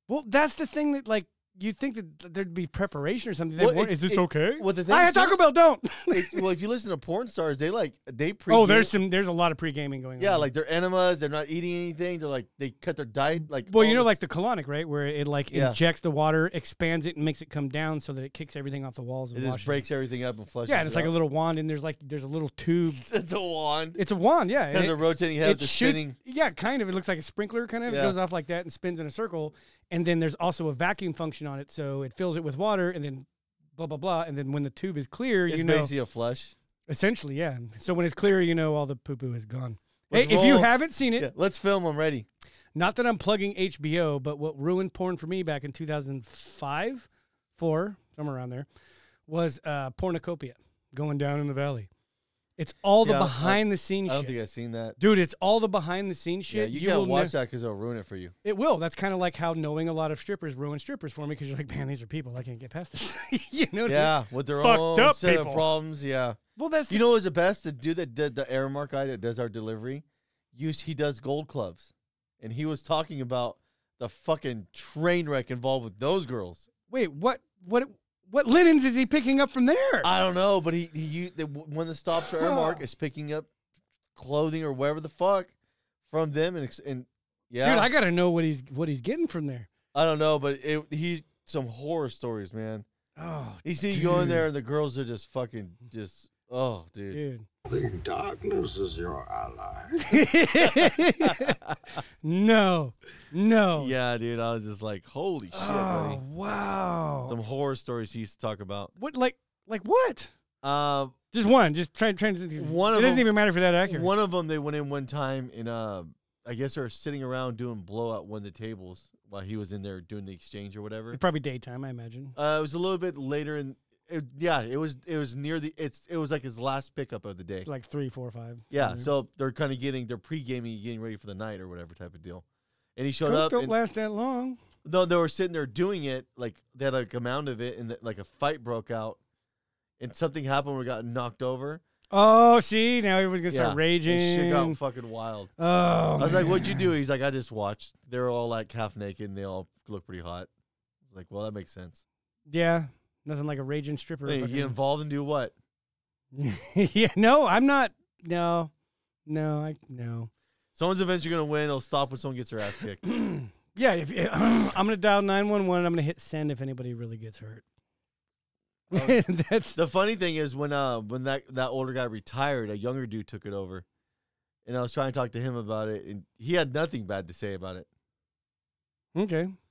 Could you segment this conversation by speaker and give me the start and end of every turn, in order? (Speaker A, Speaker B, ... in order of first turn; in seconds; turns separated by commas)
Speaker A: 0.1-6.5, Speaker B: 3.6-5.4, Speaker B: 6.1-8.9, Speaker A: 8.5-10.5, Speaker B: 10.2-14.1, Speaker A: 13.7-19.8, Speaker B: 15.5-15.8, Speaker B: 19.3-21.1, Speaker A: 20.7-23.0, Speaker B: 23.0-24.0, Speaker A: 24.0-35.9, Speaker B: 24.7-26.2, Speaker B: 27.9-28.2, Speaker B: 35.5-36.5, Speaker A: 36.9-41.3, Speaker B: 40.1-42.3, Speaker A: 42.8-48.7, Speaker A: 49.3-51.9, Speaker A: 52.6-54.3, Speaker B: 53.0-55.0, Speaker A: 55.0-57.3, Speaker B: 56.5-58.4, Speaker A: 58.5-65.7, Speaker B: 63.9-66.4, Speaker A: 66.6-67.0, Speaker B: 66.9-76.7, Speaker A: 76.9-80.1, Speaker B: 80.0-83.5, Speaker A: 82.4-82.8, Speaker B: 84.2-85.5, Speaker B: 86.1-87.9, Speaker A: 87.6-89.7, Speaker B: 89.9-92.9, Speaker A: 93.2-94.5, Speaker B: 93.6-97.2, Speaker A: 97.1-97.5, Speaker C: 97.7-99.9, Speaker A: 100.0-101.6, Speaker B: 100.7-101.8, Speaker A: 102.2-103.9, Speaker B: 103.8-106.2, Speaker A: 105.5-107.3, Speaker B: 107.2-108.9, Speaker A: 109.0-110.3, Speaker B: 110.6-111.2, Speaker A: 111.3-114.1, Speaker B: 112.6-113.3, Speaker B: 113.8-121.2, Speaker A: 121.1-122.3, Speaker B: 122.4-127.7, Speaker A: 127.7-129.1, Speaker B: 128.7-132.4, Speaker B: 133.0-133.7, Speaker A: 133.2-134.6, Speaker B: 134.8-139.2, Speaker B: 140.0-141.8, Speaker A: 142.1-144.8, Speaker B: 143.5-145.5, Speaker A: 145.6-146.9, Speaker B: 146.2-150.5, Speaker B: 151.1-152.0, Speaker A: 152.5-154.8, Speaker B: 154.3-155.5, Speaker A: 156.3-158.7, Speaker A: 159.3-160.3, Speaker B: 160.8-163.0, Speaker A: 163.0-167.6, Speaker A: 168.9-169.8, Speaker B: 168.9-169.2, Speaker B: 169.8-173.8, Speaker B: 174.7-177.9, Speaker A: 179.2-179.6